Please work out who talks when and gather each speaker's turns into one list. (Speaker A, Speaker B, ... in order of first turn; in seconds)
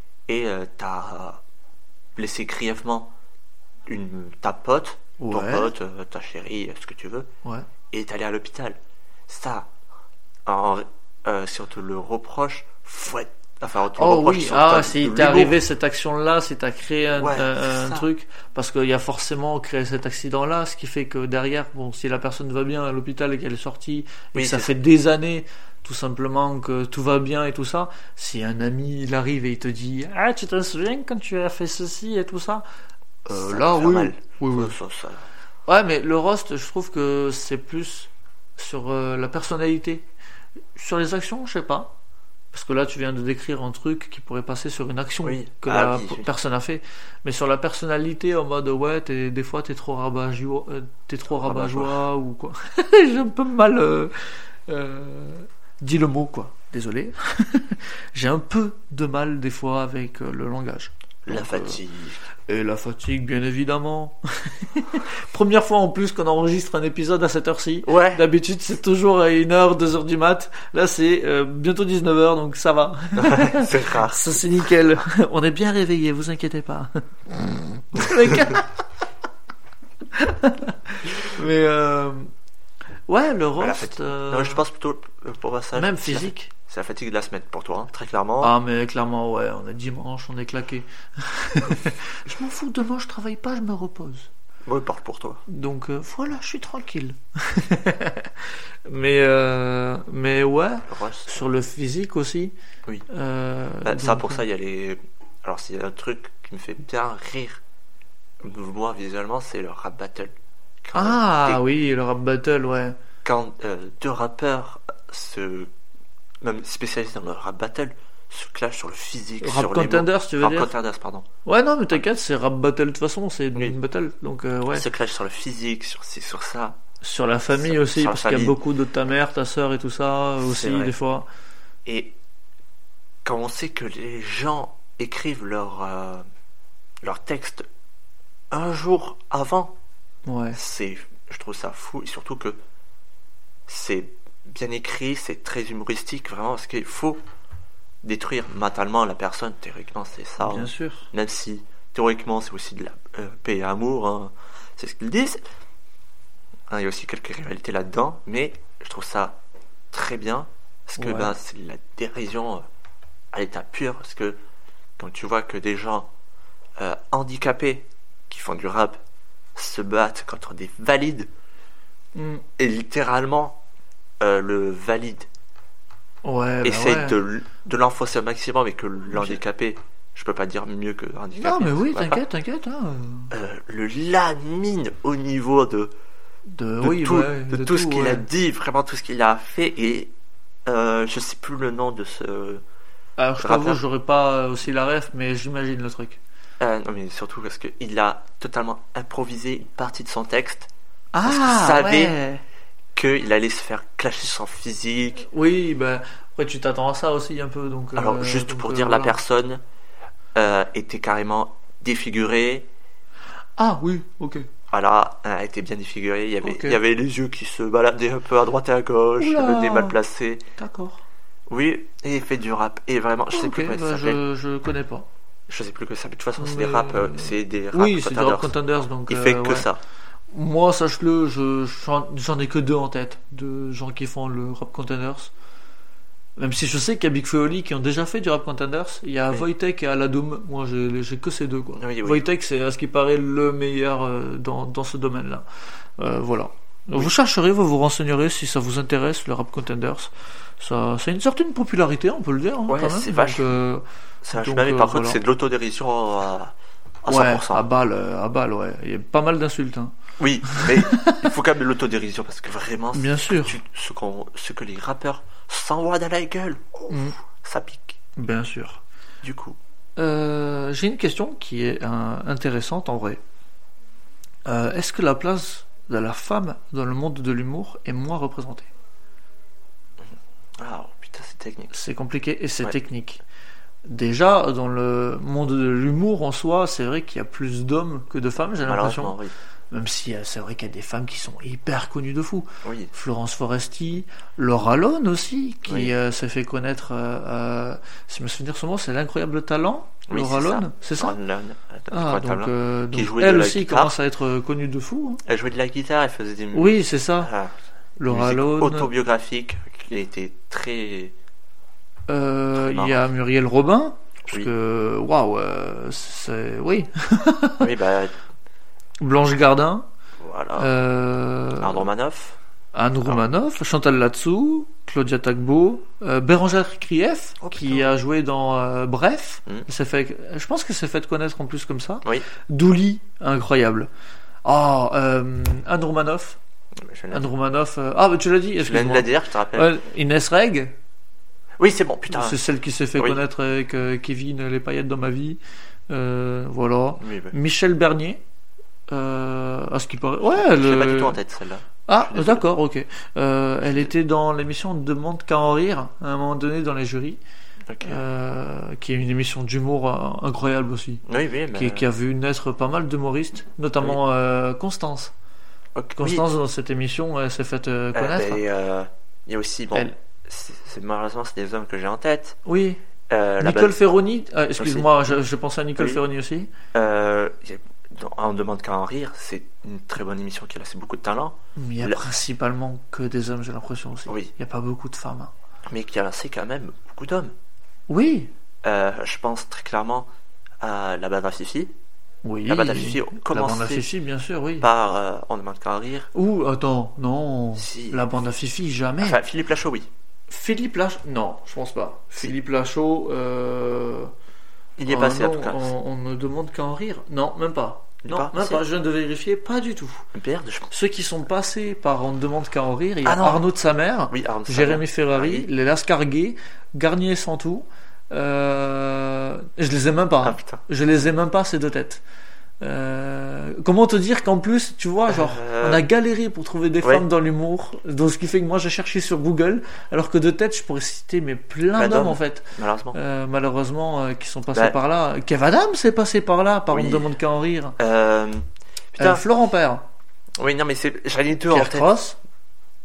Speaker A: 0.3-1.4, 2.1-3.1, 3.9-7.3, 7.9-9.7, 10.4-15.6, 17.2-18.1, 24.3-24.7, 33.3-35.2, 45.2-46.3, 51.4-52.0, 61.2-62.2, 67.8-68.2, 73.2-74.4, 78.1-78.5, 83.6-88.5, 94.6-95.4, 100.9-101.4, 103.8-107.6, 108.4-111.6, 113.2-115.7, 116.4-121.3, 124.7-126.8, 127.5-128.6, 130.4-130.9, 131.8-132.1, 133.2-136.2, 137.0-137.7, 138.5-139.7, 140.5-142.6, 143.7-147.2, 148.0-155.4, 156.7-159.4, 159.9-162.6, 163.3-164.4, 165.0-166.1, 166.8-169.0, 169.5-171.3, 172.6-173.6, 174.2-175.3, 176.6-182.2, 183.3-185.9, 186.8-190.1, 190.7-192.6, 193.4-193.8, 196.6-200.7, 201.2-202.2, 202.9-205.3, 207.9-209.6, 210.3-212.7, 214.7-220.4, 221.5-224.2, 225.5-228.5, 229.1-229.8, 241.8-242.2, 252.7-253.6, 254.2-257.7, 260.2-268.0, 269.2-269.6, 280.0-281.7, 288.6-289.3, 292.6-292.9, 295.6-295.9, 300.1-303.9, 305.2-307.5, 308.1-311.1, 312.6-313.0, 317.6-318.2, 320.2-320.7, 321.6-322.4, 327.4-327.9, 336.8-337.3, 338.6-339.7, 341.6-342.4, 347.0-347.3, 350.2-352.5, 357.7-358.0, 361.1-361.9, 365.7-366.2, 367.9-372.4, 373.1-373.8, 374.6-375.1, 375.8-376.0, 376.7-382.0, 385.7-387.3, 388.6-390.1, 390.6-391.7, 392.5-393.9, 394.6-396.1, 397.6-398.0, 399.0-399.9, 404.8-405.7, 408.0-408.6, 410.1-410.7, 413.0-413.4, 414.1-415.5, 420.2-420.6, 425.1-425.9, 431.8-433.0, 436.7-437.1, 437.8-439.2, 440.4-441.9
Speaker B: 5.2-5.7, 14.0-32.6, 33.3-34.7, 35.7-40.1, 40.8-41.9, 42.5-61.8, 62.5-78.7, 80.1-82.3, 83.1-84.6, 85.8-86.5, 88.4-94.3, 95.5-102.5, 103.1-104.4, 110.9-113.0, 119.4-120.7, 121.4-124.8, 127.0-131.3, 140.2-140.6, 150.4-151.1, 161.0-161.3, 172.1-172.4, 176.2-177.2, 181.4-183.3, 186.5-188.2, 193.2-196.2, 201.1-202.4, 205.3-209.2, 213.6-214.4, 216.4-216.8, 219.2-220.0, 220.6-221.0, 223.3-225.1, 226.4-229.7, 230.3-235.3, 236.4-245.4, 246.0-255.2, 257.1-261.3, 262.9-263.6, 266.9-267.1, 268.1-268.8, 270.0-273.2, 274.4-278.7, 281.7-283.2, 283.8-289.2, 289.7-301.1, 301.9-305.2, 306.5-307.3, 308.0-308.9, 312.1-317.7, 319.0-319.9, 320.6-321.9, 322.7-333.9, 334.4-336.4, 337.1-340.7, 342.1-348.2, 348.9-351.2, 351.9-357.2, 357.8-365.1, 366.0-368.4, 372.4-372.8, 373.4-376.5, 381.6-385.3, 387.9-388.3, 392.2-394.7, 396.1-399.2, 400.3-404.1, 404.9-410.1, 410.7-422.0, 422.6-437.8, 439.0-439.8, 441.5-442.2